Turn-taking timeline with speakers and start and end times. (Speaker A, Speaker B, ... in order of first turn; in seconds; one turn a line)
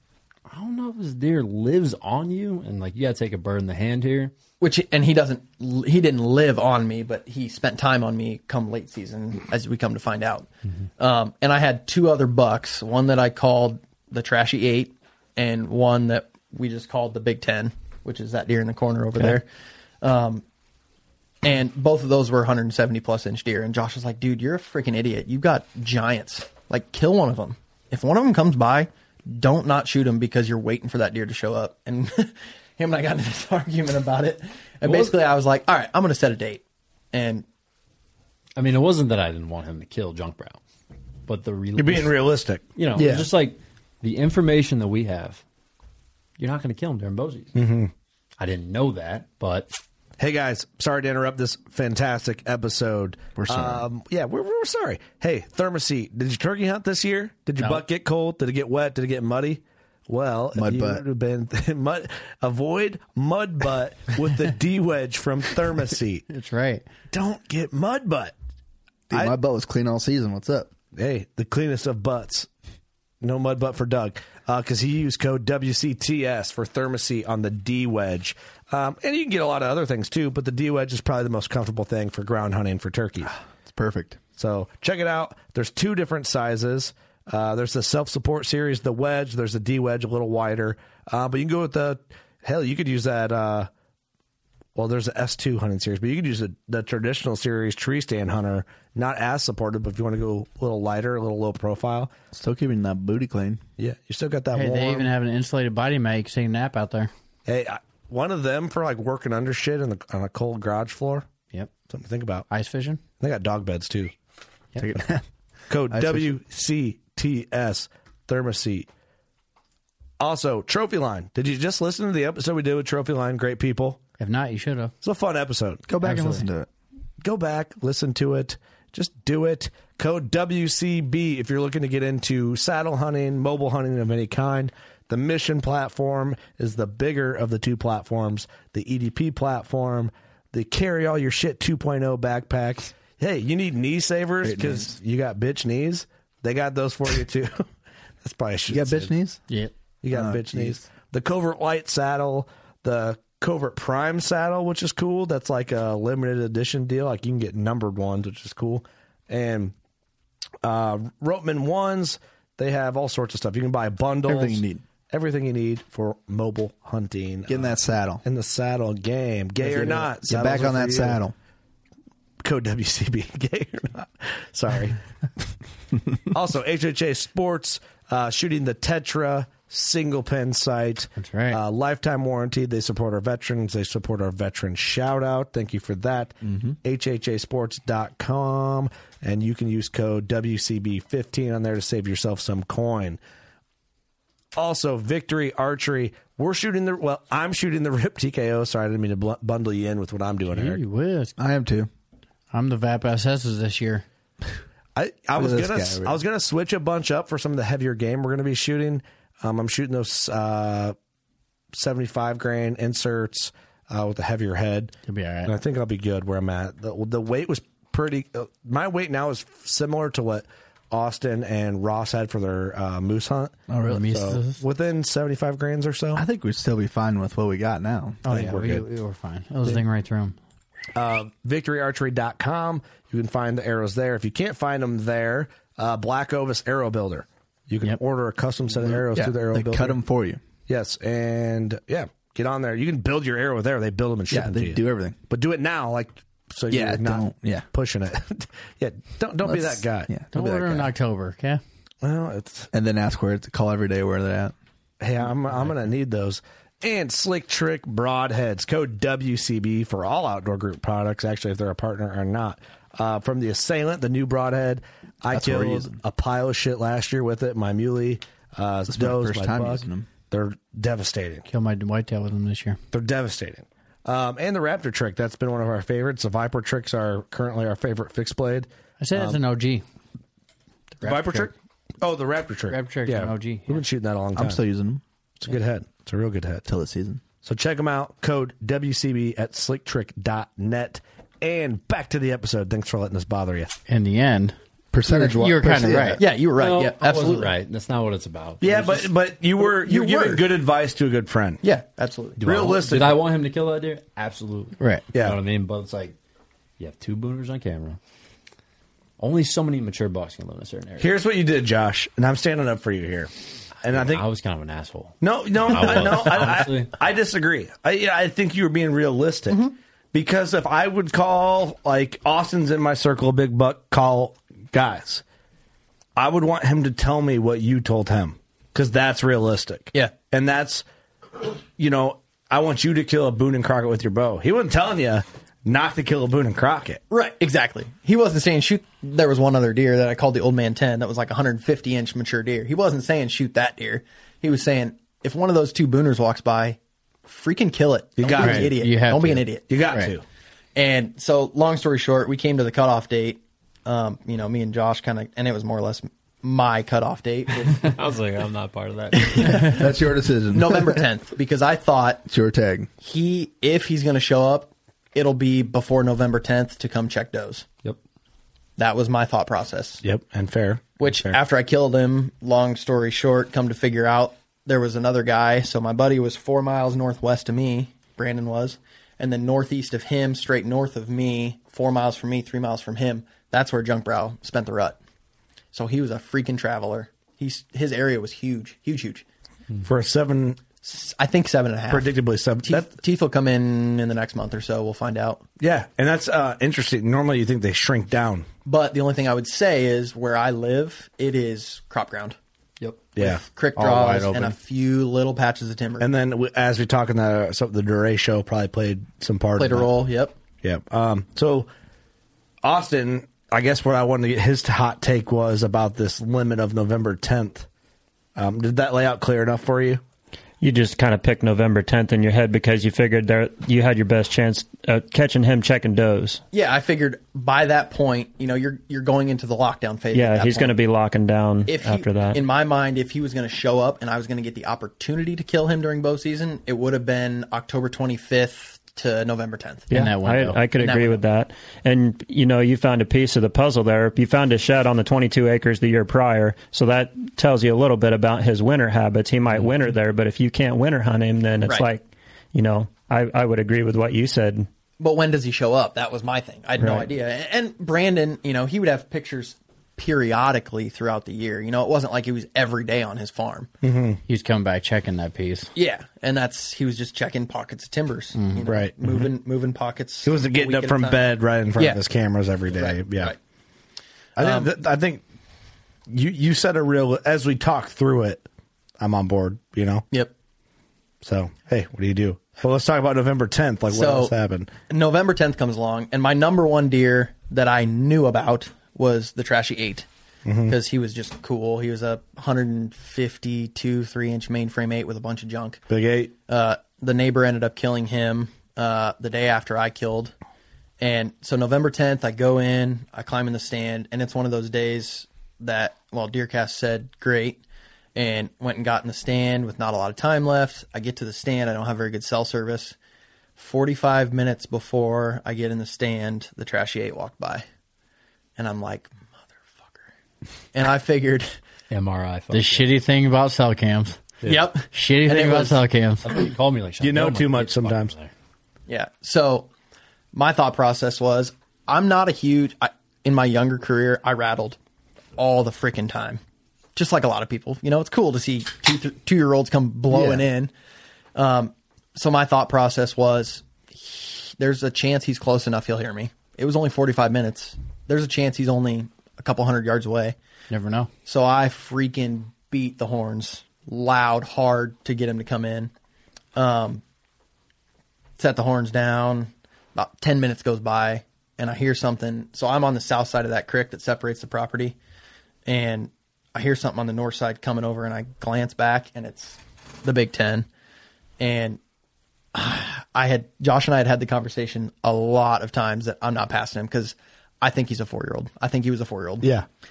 Speaker A: 0.5-4.3
Speaker B: 4.6-19.4
Speaker B: 20.0-20.4
Speaker B: 21.4-36.6
Speaker B: 37.1-37.4
Speaker A: 38.5-40.6
Speaker A: 41.2-42.1
Speaker C: 41.8-43.3
Speaker A: 42.8-45.4
Speaker A: 46.4-47.5
Speaker C: 47.5-47.9
Speaker A: 48.4-49.7
Speaker C: 50.2-66.2
Speaker D: 53.4-53.8
Speaker D: 60.5-61.0
Speaker E: 66.3-66.9
Speaker C: 67.1-68.3
Speaker D: 69.1-70.7
Speaker C: 70.9-72.5
Speaker C: 73.2-83.3
Speaker D: 83.7-84.2
Speaker C: 84.4-93.7
Speaker C: 94.7-102.1
Speaker D: 102.3-103.6
Speaker C: 103.8-105.1
Speaker E: 104.5-107.1
Speaker C: 107.5-111.3
Speaker C: 111.9-112.5
Speaker E: 112.5-113.0
Speaker C: 113.2-114.1
Speaker D: 114.8-115.2
Speaker C: 115.7-118.9
Speaker D: 115.9-116.3
Speaker C: 120.2-124.0
Speaker E: 124.2-124.9
Speaker C: 125.0-125.9
Speaker D: 125.9-126.7
Speaker E: 126.0-126.5
Speaker C: 127.2-147.7
Speaker D: 144.4-144.9
Speaker C: 148.2-149.1
Speaker D: 148.7-149.4
Speaker C: 150.0-159.7
Speaker D: 150.1-150.8
Speaker C: 160.6-171.2
Speaker D: 164.2-164.8
Speaker D: 167.5-168.2
Speaker D: 169.6-171.3
Speaker C: 172.4-175.0
Speaker C: 176.3-193.2
Speaker E: 181.2-181.6
Speaker C: 194.6-200.8
Speaker E: 200.5-201.3
Speaker D: 201.4-201.9
Speaker E: 202.5-204.0
Speaker C: 204.9-210.9
Speaker D: 205.3-206.2
Speaker C: 211.7-214.9
Speaker E: 215.1-215.5
Speaker C: 215.4-226.2
Speaker D: 223.7-224.1
Speaker E: 223.8-224.6
Speaker D: 226.1-228.2
Speaker E: 228.2-230.3
Speaker C: 228.3-228.8
Speaker C: 230.9-240.0
Speaker D: 238.8-240.4
Speaker C: 240.7-250.2
Speaker D: 244.3-245.2
Speaker D: 246.7-247.6
Speaker D: 249.4-250.9
Speaker E: 250.3-251.6
Speaker C: 252.0-252.7
Speaker D: 252.7-254.5
Speaker C: 255.0-271.5
Speaker D: 265.3-265.9
Speaker D: 268.9-270.1
Speaker E: 271.5-272.8
Speaker C: 272.9-279.4
Speaker E: 279.0-279.8
Speaker E: 281.0-281.5
Speaker C: 281.0-284.6
Speaker E: 282.7-283.8
Speaker D: 284.4-285.0
Speaker C: 285.4-286.6
Speaker D: 286.6-287.2
Speaker C: 287.4-293.7
Speaker E: 293.9-294.6
Speaker D: 294.9-296.2
Speaker E: 295.1-296.2
Speaker B: 296.2-297.5
Speaker A: 296.5-299.1
Speaker C: 298.6-301.6
Speaker B: 299.6-300.4
Speaker B: 301.6-302.4
Speaker A: 302.4-306.1
Speaker C: 302.4-303.2
Speaker E: 304.8-305.1
Speaker C: 305.1-305.4
Speaker A: 306.8-308.0
Speaker A: 309.2-311.1
Speaker C: 311.0-313.3
Speaker C: 313.8-314.2
Speaker A: 313.9-316.9
Speaker C: 315.2-319.6
Speaker C: 320.1-325.2
Speaker C: 326.1-330.8
Speaker C: 331.8-337.0
Speaker B: 337.1-349.7
Speaker C: 348.2-348.8
Speaker E: 348.4-350.1
Speaker C: 349.7-350.2
Speaker B: 350.8-357.9
Speaker A: 357.8-359.7
Speaker B: 359.1-359.9
Speaker D: 359.5-361.0
Speaker B: 360.5-362.2
Speaker D: 362.3-362.9
Speaker B: 363.0-367.6
Speaker B: 368.8-370.0
Speaker C: 370.0-371.4
Speaker B: 371.0-385.0
Speaker B: 385.7-389.2
Speaker C: 389.8-390.6
Speaker B: 390.8-395.4
Speaker C: 391.9-392.9
Speaker C: 395.6-398.5
Speaker B: 398.6-402.4
Speaker A: 402.8-403.1
Speaker C: 403.1-403.4
Speaker B: 403.2-406.1
Speaker E: 403.8-404.5
Speaker C: 406.0-409.9
Speaker B: 409.6-410.3
Speaker C: 410.6-411.7
Speaker C: 412.6-417.7
Speaker C: 418.4-420.0
Speaker F: 420.6-426.4
Speaker B: 426.5-430.7
Speaker F: 430.1-432.4
Speaker B: 431.7-439.9
Speaker E: 439.9-440.6
Speaker F: 439.9-454.7
Speaker B: 440.8-441.2
Speaker B: 455.0-463.7
Speaker C: 456.8-457.1
Speaker C: 463.8-464.2
Speaker E: 464.3-465.7
Speaker B: 465.7-471.2
Speaker E: 468.4-468.6
Speaker C: 468.6-469.3
Speaker C: 470.2-473.3
Speaker B: 472.7-473.4
Speaker C: 474.4-475.2
Speaker B: 474.4-474.7
Speaker C: 476.1-478.4
Speaker C: 479.0-480.0
Speaker C: 481.2-484.7
Speaker B: 483.9-484.3
Speaker B: 484.9-490.1
Speaker C: 490.4-490.7
Speaker B: 490.7-495.8
Speaker C: 495.9-496.3
Speaker B: 496.5-500.3
Speaker B: 501.0-507.6
Speaker B: 508.1-512.9
Speaker B: 513.6-517.6
Speaker B: 518.6-520.1
Speaker B: 520.7-521.5
Speaker A: 521.9-522.9
Speaker E: 522.5-524.2
Speaker B: 524.5-525.8
Speaker E: 524.9-526.4
Speaker A: 526.2-528.3
Speaker C: 527.0-528.1
Speaker B: 528.9-529.7
Speaker B: 530.3-534.8
Speaker B: 535.4-536.4
Speaker B: 537.0-540.7
Speaker D: 540.1-540.4
Speaker B: 541.3-550.4
Speaker E: 550.7-551.1
Speaker B: 551.2-555.9
Speaker B: 556.5-557.0
Speaker B: 558.4-565.0
Speaker B: 565.6-570.7
Speaker B: 571.4-571.8
Speaker B: 572.5-579.5